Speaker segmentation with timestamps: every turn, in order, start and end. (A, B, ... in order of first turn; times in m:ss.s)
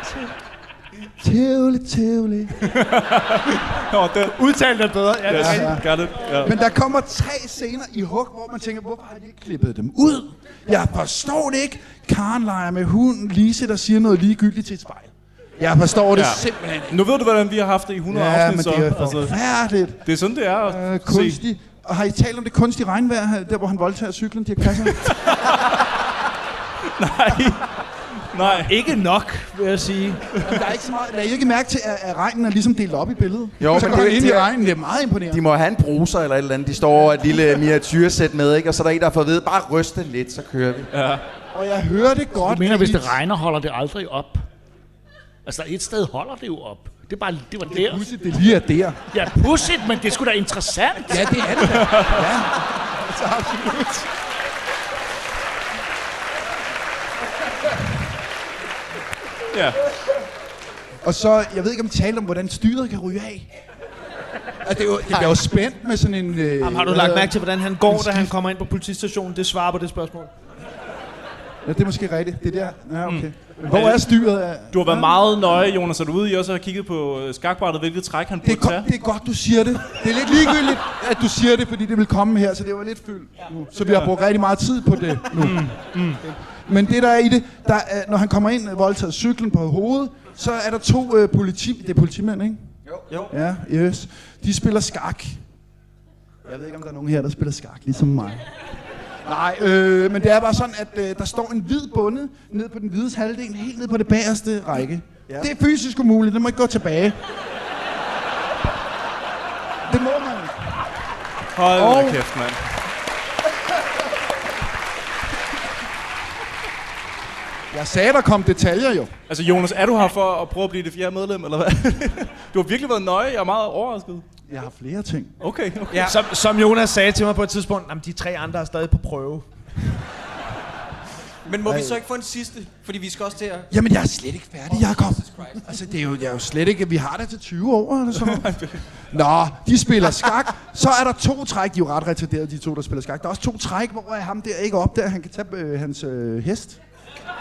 0:01.2-0:02.5 A
0:02.6-0:04.4 B
0:04.3-0:06.5 C
0:05.2-0:06.5 B
0:05.4-0:05.8 A
0:06.4-0:17.0 A
0:16.1-0:19.4 B
0:18.1-0:20.0 A
0:20.0-0:21.4 B
0:20.6-0:25.2 A
0:25.0-0:25.8 B
0:27.0-0:27.7 B
0:28.3-0:28.8 B
0:28.6-0:30.2 C
0:30.4-0:35.4 A
0:33.6-0:34.6 D
0:35.3-0:40.9 D
0:40.9-0:41.2 B
0:41.5-0:43.2 A
0:42.4-0:44.4 E
0:45.4-0:48.0 E
0:47.7-0:49.0 A
0:49.1-0:51.6 E
0:51.1-0:54.1 A
0:51.7-0:52.2 B
0:59.5-0:59.8 B
1:01.0-1:03.5 A
1:04.6-1:07.3 A
1:05.1-1:05.4 C
1:06.6-1:10.3 C
1:07.8-1:08.3 A
1:11.6-1:15.4 A
1:13.0-1:18.9 B
1:18.4-1:25.8 A
1:25.3-1:26.2 B
1:26.6-1:32.7 A
1:33.3-1:35.4 A
1:36.4-1:38.4 A
1:39.2-1:47.2 A
1:49.8-1:50.5 A
1:51.6-1:52.6 B
1:51.7-1:52.2 A
1:57.7-1:59.1 A
1:59.3-2:04.3 B
2:04.5-2:05.3 A
2:05.4-2:06.1 B
2:06.0-2:09.4 C
2:11.4-2:13.7 F
2:11.6-2:12.0 A
2:13.7-2:18.5 A
2:14.7-2:15.6 F
2:18.2-2:18.8 B
2:19.1-2:26.8 A